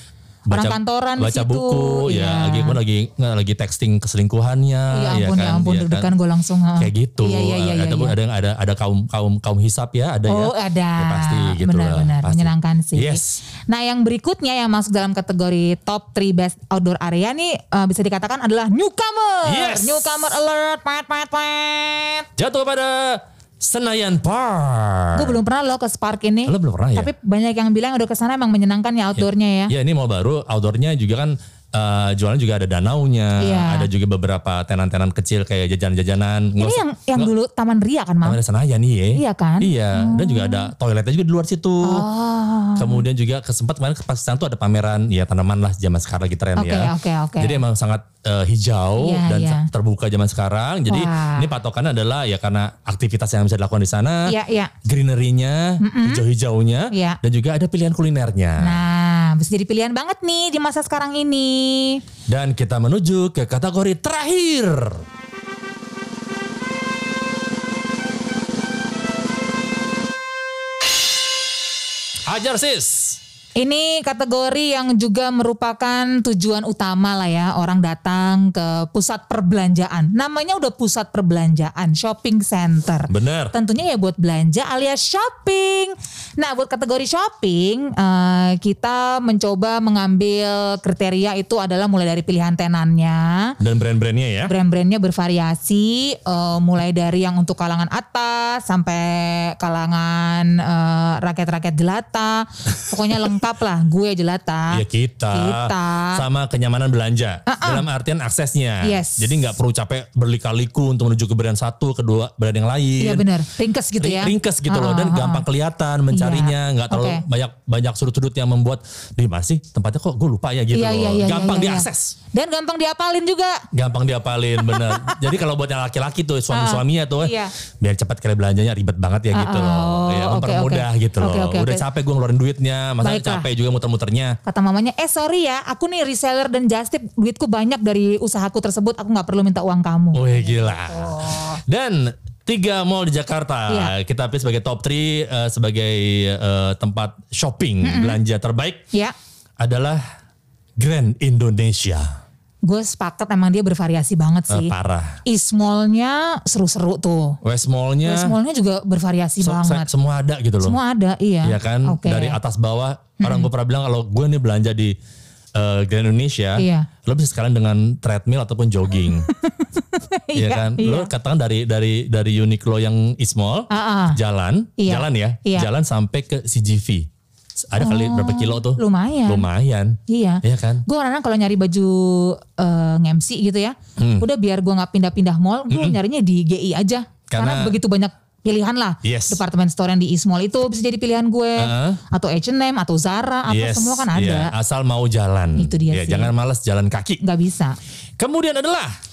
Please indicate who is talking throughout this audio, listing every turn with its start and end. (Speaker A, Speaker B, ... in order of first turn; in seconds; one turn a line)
Speaker A: 0.5-6.1
Speaker B: 0.5-2.8
Speaker B: 4.9-8.1
Speaker A: 6.8-13.4
Speaker B: 10.3-22.3
Speaker A: 19.4-20.4
Speaker A: 22.4-25.4
Speaker B: 25.1-29.7
Speaker A: 26.5-27.1
Speaker A: 29.1-37.3
Speaker B: 33.4-33.9
Speaker B: 36.6-38.4
Speaker A: 38.2-42.1
Speaker B: 39.1-40.7
Speaker B: 41.8-43.0
Speaker A: 42.8-58.8
Speaker B: 46.6-47.6
Speaker B: 49.0-49.7
Speaker B: 50.9-51.5
Speaker B: 54.3-54.7
Speaker B: 55.8-56.2
Speaker B: 56.9-57.2
Speaker B: 58.6-62.0
Speaker A: 62.3-65.0
Speaker A: 72.2-73.2
Speaker B: 73.6-93.6
Speaker A: 83.1-83.5
Speaker A: 93.6-94.5
Speaker B: 94.5-106.2
Speaker A: 104.7-113.3
Speaker B: 107.5-107.8
Speaker B: 108.8-109.5
Speaker B: 113.0-115.4
Speaker A: 114.0-122.2
Speaker B: 116.1-117.2
Speaker B: 120.7-123.7
Speaker A: 123.7-134.4
Speaker B: 124.6-125.2
Speaker B: 126.5-127.5
Speaker B: 129.3-131.9
Speaker B: 133.0-133.5
Speaker B: 134.4-141.6
Speaker A: 140.1-148.8
Speaker B: 143.7-143.9
Speaker B: 147.8-148.2
Speaker A: 149.6-150.0
Speaker A: 150.8-152.2
Speaker B: 152.6-154.7
Speaker A: 154.5-155.2
Speaker B: 155.2-157.4
Speaker A: 157.4-158.3
Speaker B: 158.0-159.9
Speaker A: 159.4-160.8
Speaker B: 160.6-162.4
Speaker A: 161.4-165.0
Speaker B: 163.2-163.5
Speaker A: 165.6-169.3
Speaker B: 166.6-166.9
Speaker B: 169.3-171.1
Speaker A: 170.3-177.1
Speaker B: 173.7-174.2
Speaker B: 174.8-175.7
Speaker A: 177.6-180.8
Speaker B: 177.8-179.4
Speaker B: 180.1-194.5
Speaker A: 184.0-184.3
Speaker A: 185.7-186.0
Speaker A: 187.3-187.7
Speaker A: 189.0-189.4
Speaker A: 191.6-192.0
Speaker A: 193.5-197.2
Speaker B: 195.6-196.3
Speaker B: 197.2-197.8
Speaker A: 198.2-198.9